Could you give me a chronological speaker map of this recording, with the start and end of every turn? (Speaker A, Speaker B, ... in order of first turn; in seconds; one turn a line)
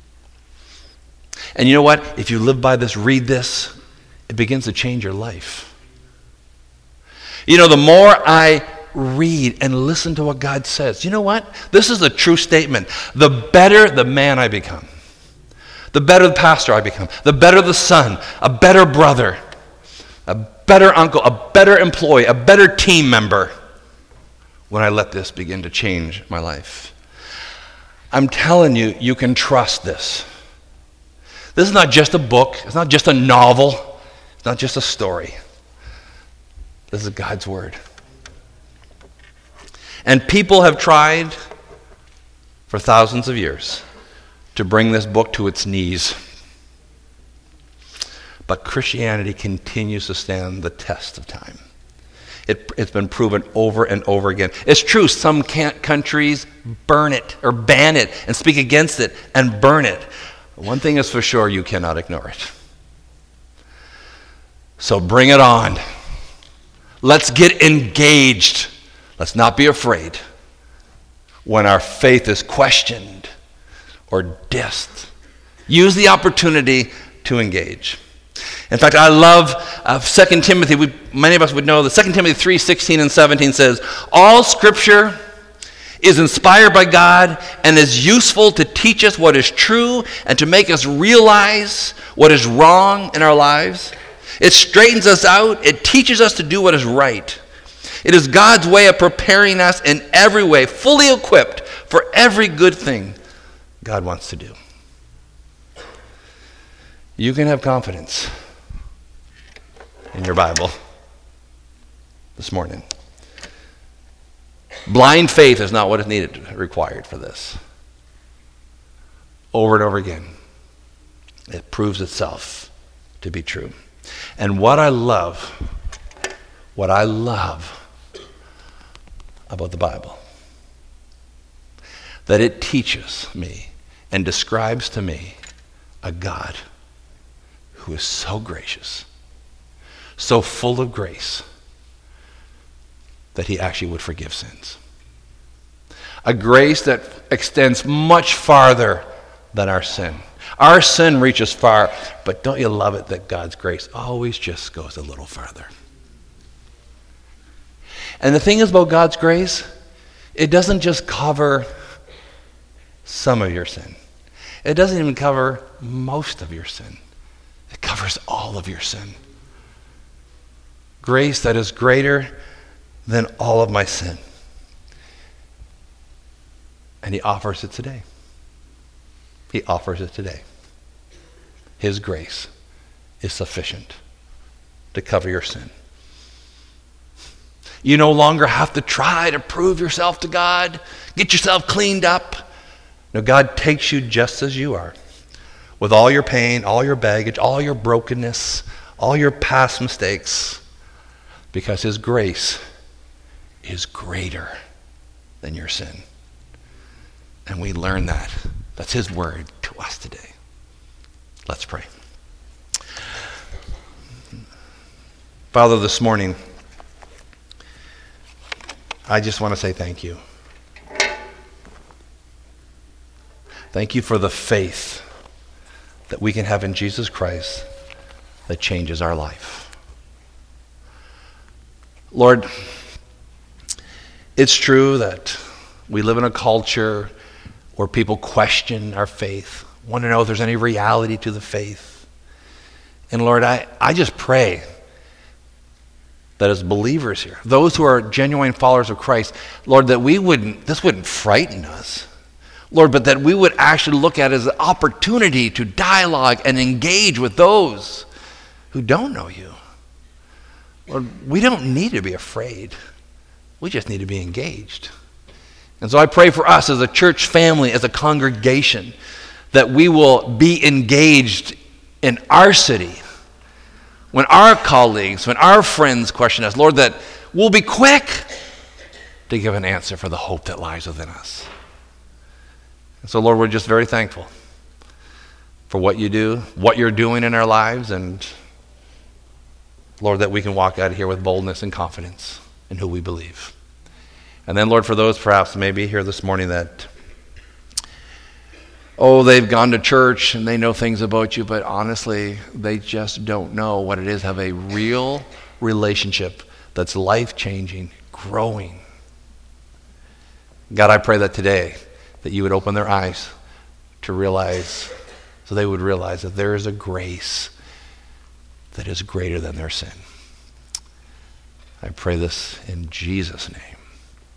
Speaker A: 1.6-3.7
Speaker A: 4.3-5.7
Speaker A: 7.5-14.9
Speaker A: 15.9-19.4
Speaker A: 20.3-23.5
Speaker A: 24.7-26.9
Speaker A: 28.1-30.3
Speaker A: 31.6-35.4
Speaker A: 36.9-37.8
Speaker A: 40.0-41.4
Speaker A: 42.7-43.8
Speaker A: 44.5-46.2
Speaker A: 48.5-51.6
Speaker A: 52.5-60.1
Speaker A: 60.6-62.5
Speaker A: 64.8-65.8
Speaker A: 67.0-70.2
Speaker A: 71.5-73.3
Speaker A: 74.1-75.1
Speaker A: 75.7-78.0
Speaker A: 78.7-85.2
Speaker A: 86.0-97.4
Speaker A: 98.0-103.2
Speaker A: 103.8-104.6
Speaker A: 107.2-108.3
Speaker A: 110.1-110.7
Speaker A: 112.4-112.8
Speaker A: 114.9-117.6
Speaker A: 119.5-120.3
Speaker A: 121.5-122.7
Speaker A: 123.2-123.7
Speaker A: 124.4-125.6
Speaker A: 126.8-127.8
Speaker A: 129.5-130.2
Speaker A: 132.3-135.4
Speaker A: 136.0-136.6
Speaker A: 137.8-139.1
Speaker A: 140.2-141.4
Speaker A: 143.3-144.8
Speaker A: 146.2-155.7
Speaker A: 158.2-159.7
Speaker A: 160.3-161.7
Speaker A: 163.1-164.0
Speaker A: 164.6-167.0
Speaker A: 167.7-169.2
Speaker A: 171.0-172.3
Speaker A: 173.1-174.2
Speaker A: 177.0-178.0
Speaker A: 179.5-180.4
Speaker A: 181.8-182.5
Speaker A: 183.2-184.0
Speaker A: 184.9-185.7
Speaker A: 187.8-192.4
Speaker A: 193.1-194.9
Speaker A: 195.8-200.6
Speaker A: 201.5-202.6
Speaker A: 203.6-204.6
Speaker A: 205.4-206.1
Speaker A: 207.5-210.3
Speaker A: 211.5-211.9
Speaker A: 215.5-216.4
Speaker A: 219.1-220.2
Speaker A: 223.7-225.0
Speaker A: 226.1-227.7
Speaker A: 228.5-229.7
Speaker A: 232.1-232.5
Speaker A: 234.4-237.1
Speaker A: 237.8-242.0
Speaker A: 243.1-244.6
Speaker A: 246.4-252.1
Speaker A: 252.7-258.1
Speaker A: 258.7-259.6
Speaker A: 260.9-262.8
Speaker A: 263.6-264.9
Speaker A: 265.8-268.9
Speaker A: 269.5-273.0
Speaker A: 274.1-278.3
Speaker A: 279.3-281.5
Speaker A: 283.0-284.3
Speaker A: 285.7-288.3
Speaker A: 290.0-293.5
Speaker A: 294.5-296.9
Speaker A: 299.0-308.8
Speaker A: 310.7-313.3
Speaker A: 314.0-314.9
Speaker A: 315.4-317.5
Speaker A: 318.7-320.0
Speaker A: 321.8-323.8